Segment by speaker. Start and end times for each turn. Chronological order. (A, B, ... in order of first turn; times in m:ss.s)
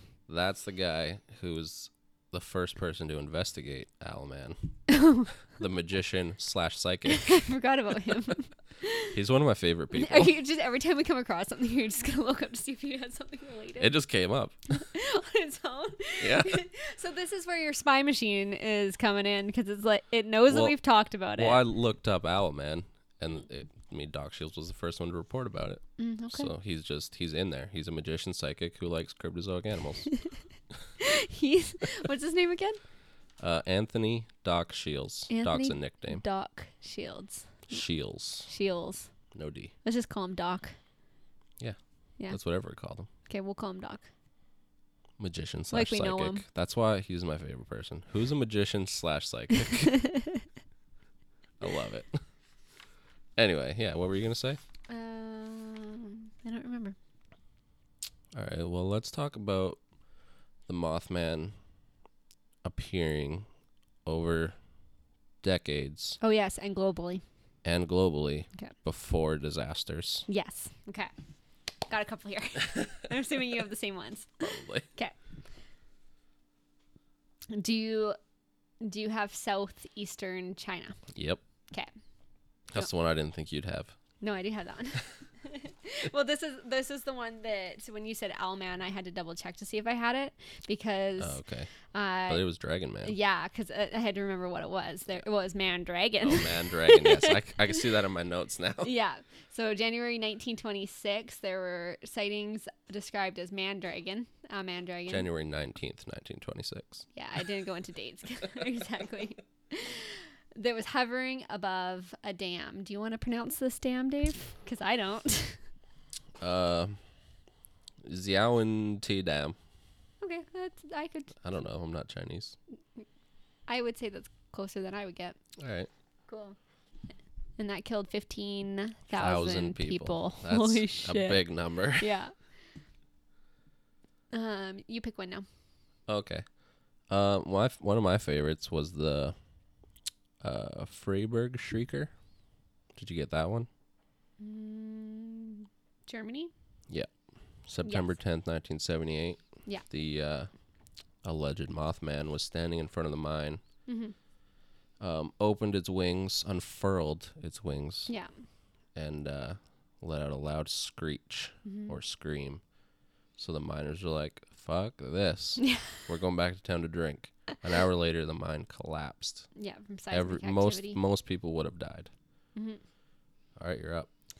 0:00.3-0:04.7 A
0:04.9-0:05.3 B
0:05.5-0:07.4 A
0:07.1-0:09.1 B
0:09.1-0:10.3 A
0:09.9-0:13.9 B
0:13.8-0:14.6 A
0:14.7-0:21.6 B
0:16.2-0:16.6 A
0:20.5-0:20.8 A
0:21.3-0:30.1 A
0:26.0-0:26.5 B
0:31.0-0:32.8 B
0:33.4-0:36.2 A
0:35.3-0:37.8 B
0:37.7-0:38.5 A
0:38.4-0:39.1 B
0:39.3-0:39.7 A
0:39.8-0:40.8 B
0:42.3-0:43.1 A
0:43.3-0:44.1 B
0:45.2-0:49.9 A
0:45.7-0:46.4 B
0:49.8-0:50.4 B
0:51.6-0:52.2 A
0:53.4-0:54.6 A
0:54.9-0:57.0 B
0:58.3-0:59.8 A
1:00.7-1:01.5 A
1:02.6-1:03.4 A
1:04.0-1:04.6 A
1:05.4-1:06.2 A
1:06.2-1:07.2 B
1:07.6-1:10.2 A
1:10.3-1:11.1 B
1:11.9-1:15.1 B
1:14.4-1:14.9 A
1:17.5-1:18.2 B
1:18.8-1:21.0 B
1:21.1-1:21.4 A
1:22.7-1:23.9 A
1:24.2-1:31.4 B
1:31.2-1:31.7 A
1:31.9-1:32.4 B
1:32.3-1:33.1 A
1:33.0-1:37.4 B
1:36.2-1:38.9 A
1:38.8-1:45.3 B
1:45.1-1:47.0 A
1:47.1-1:55.6 B
1:56.4-1:57.0 A
1:58.0-1:59.6 A
2:00.2-2:01.4 B
2:01.4-2:02.6 A
2:03.7-2:05.4 B
2:05.6-2:05.9 A
2:06.3-2:06.6 B
2:07.6-2:12.3 B
2:09.1-2:12.1 A
2:14.3-2:15.4 B
2:16.1-2:16.4 A
2:17.1-2:19.4 A
2:20.4-2:22.1 A
2:22.9-2:23.7 A
2:24.4-2:26.5 B
2:27.6-2:30.5 A
2:27.8-2:28.1 B
2:31.2-2:33.6 A
2:33.9-2:34.1 B
2:35.0-2:38.1 A
2:38.9-2:42.6 A
2:41.6-2:42.0 B
2:43.4-2:49.5 A
2:45.6-2:46.0 B
2:49.6-2:51.0 B
2:50.1-2:52.1 A
2:53.6-2:54.1 A